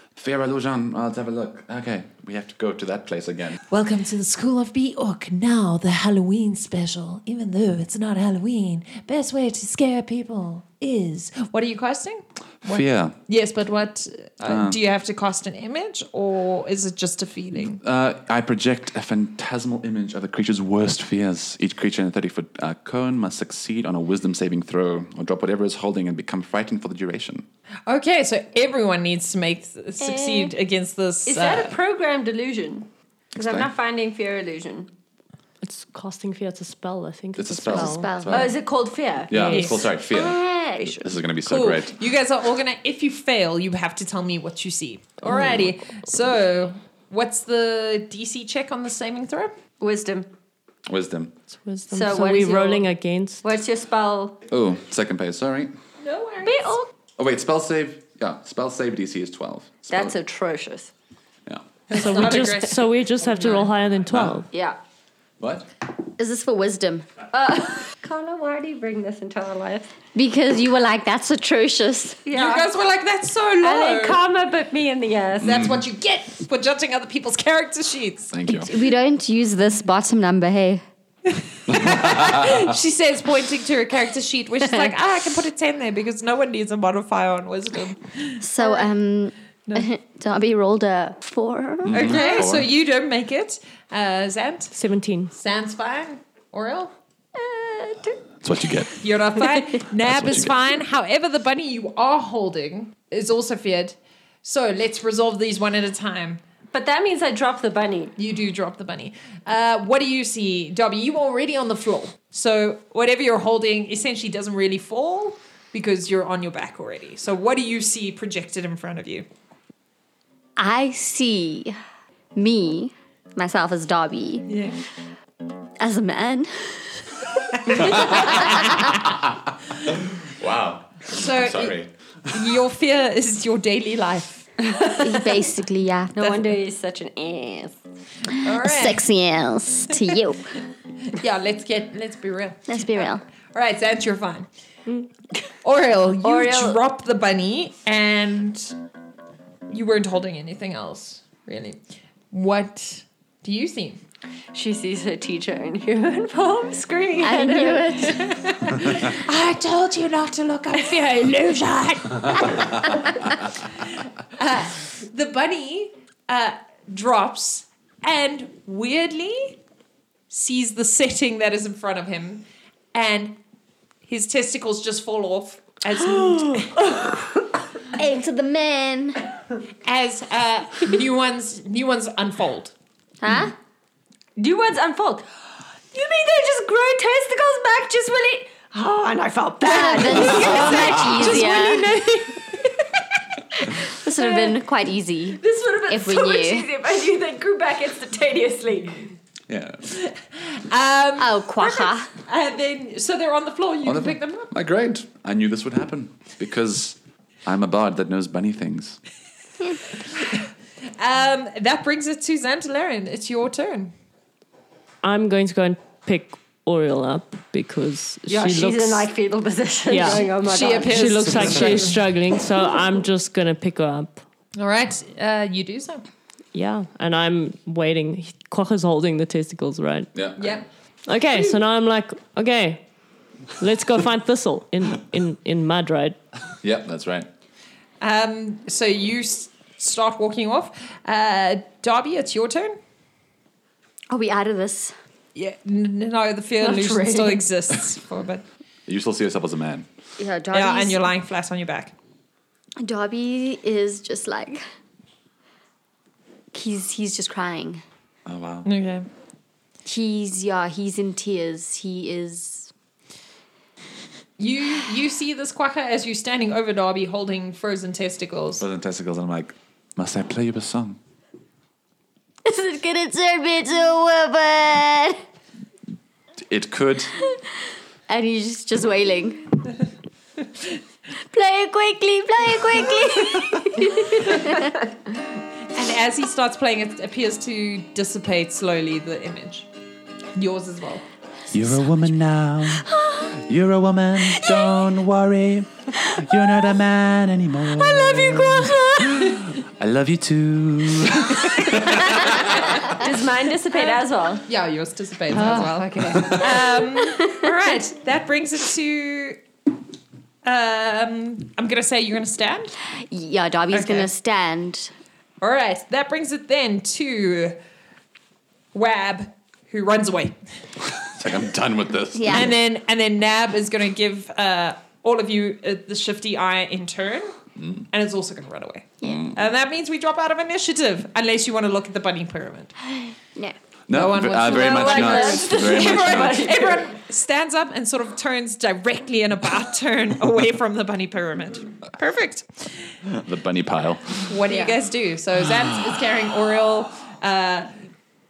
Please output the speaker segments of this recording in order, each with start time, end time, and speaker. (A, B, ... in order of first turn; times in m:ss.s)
0:00.2-0:03.6 A
0:03.7-0:17.8 B
0:12.7-0:13.2 A
0:14.5-0:14.8 A
0:17.6-0:27.5 A
0:27.9-0:31.8 B
0:30.0-0:30.5 C
0:31.3-0:34.9 C
0:33.4-0:33.7 A
0:35.6-0:38.2 D
0:37.4-0:38.7 A
0:37.7-0:38.5 E
0:38.3-0:39.6 C
0:39.3-0:41.9 A
0:39.3-0:39.7 D
0:39.5-0:39.8 B
0:40.1-0:41.1 E
0:41.5-0:49.5 B
0:45.2-0:45.7 A
0:49.8-0:50.3 C
0:50.9-0:51.3 A
0:51.6-0:53.4 D
0:51.9-0:52.9 C
0:53.4-0:54.4 C
0:54.5-0:55.7 A
0:56.0-0:56.8 B
0:56.4-0:56.9 C
0:57.2-1:00.2 A
0:59.9-1:00.9 C
1:01.9-1:03.7 B
1:01.9-1:04.5 D
1:04.1-1:04.4 A
1:04.5-1:04.8 C
1:05.4-1:05.7 A
1:06.2-1:07.1 E
1:07.3-1:09.9 C
1:10.2-1:12.2 E
1:12.2-1:12.7 C
1:12.3-1:14.2 B
1:13.6-1:15.6 C
1:15.4-1:18.3 B
1:15.6-1:15.8 A
1:18.3-1:18.7 A
1:18.5-1:20.8 E
1:21.3-1:28.4 B
1:21.7-1:22.6 A
1:28.4-1:32.4 E
1:31.8-1:32.7 A
1:31.9-1:34.8 B
1:34.8-1:35.3 D
1:35.3-1:36.9 B
1:37.4-1:38.2 C
1:38.4-1:39.1 A
1:39.0-1:46.4 B
1:40.0-1:40.5 A
1:46.7-1:48.1 C
1:48.2-1:59.3 B
2:00.6-2:01.8 E
2:02.4-2:04.5 E
2:04.5-2:04.8 B
2:05.8-2:07.0 E
2:07.7-2:11.9 A
2:07.7-2:08.1 B
2:07.7-2:08.8 E
2:11.1-2:11.8 B
2:12.3-2:14.5 B
2:14.6-2:15.3 C
2:15.0-2:16.4 E
2:16.2-2:17.8 C
2:18.3-2:19.0 B
2:18.6-2:20.5 E
2:21.1-2:24.5 B
2:22.7-2:23.2 E
2:25.6-2:28.8 B
2:26.2-2:26.8 C
2:29.7-2:31.8 B
2:32.3-2:34.0 B
2:34.5-2:38.2 C
2:37.2-2:38.3 E
2:38.1-2:43.1 B
2:43.9-2:49.6 B
2:50.3-2:53.4 B
2:54.1-2:56.9 B
2:56.6-2:57.1 C
2:57.9-2:59.2 E
2:59.8-3:02.7 B
3:03.2-3:03.6 E
3:04.4-3:05.3 C
3:05.9-3:11.4 C
3:09.6-3:11.9 E
3:10.0-3:12.8 B
3:13.9-3:16.7 E
3:15.4-3:19.2 C
3:19.5-3:19.8 A
3:19.9-3:24.5 B
3:21.2-3:22.1 E
3:23.8-3:29.0 A
3:31.0-3:33.9 B
3:35.0-3:39.1 D
3:38.3-3:41.7 C
3:39.9-3:40.3 D
3:40.4-3:42.0 B
3:40.8-3:44.2 D
3:44.6-3:46.0 B
3:46.5-3:50.1 D
3:50.2-3:50.6 A
3:50.4-3:50.7 B
3:51.1-3:52.8 D
3:53.6-3:56.2 D
3:56.6-3:57.3 A
3:58.0-4:02.8 B
4:04.1-4:04.9 E
4:05.4-4:08.4 B
4:06.6-4:07.4 C
4:08.9-4:09.9 A
4:10.2-4:11.0 E
4:10.5-4:12.0 B
4:12.8-4:14.6 E
4:16.5-4:17.8 E
4:18.3-4:18.7 A
4:18.6-4:19.1 B
4:19.8-4:22.7 E
4:24.4-4:28.6 B
4:28.6-4:31.0 A
4:32.4-4:35.2 E
4:36.5-4:37.1 A
4:38.1-4:39.6 E
4:41.3-4:44.8 E
4:45.7-4:49.7 B
4:50.4-4:51.0 B
4:51.5-5:02.6 A
4:57.8-4:59.2 C
5:02.8-5:04.4 C
5:03.8-5:09.4 B
5:05.5-5:06.4 C
5:06.1-5:06.4 A
5:07.1-5:07.5 E
5:10.4-5:12.8 B
5:13.0-5:14.9 E
5:13.7-5:14.1 B
5:15.4-5:17.6 B
5:18.7-5:20.4 B
5:21.1-5:22.5 A
5:22.1-5:22.5 E
5:22.3-5:27.3 B
5:27.9-5:32.7 B
5:29.1-5:29.3 A
5:32.9-5:33.6 E
5:33.9-5:36.5 A
5:33.9-5:42.9 B
5:34.4-5:36.9 C
5:43.2-5:44.3 A
5:44.2-5:47.7 B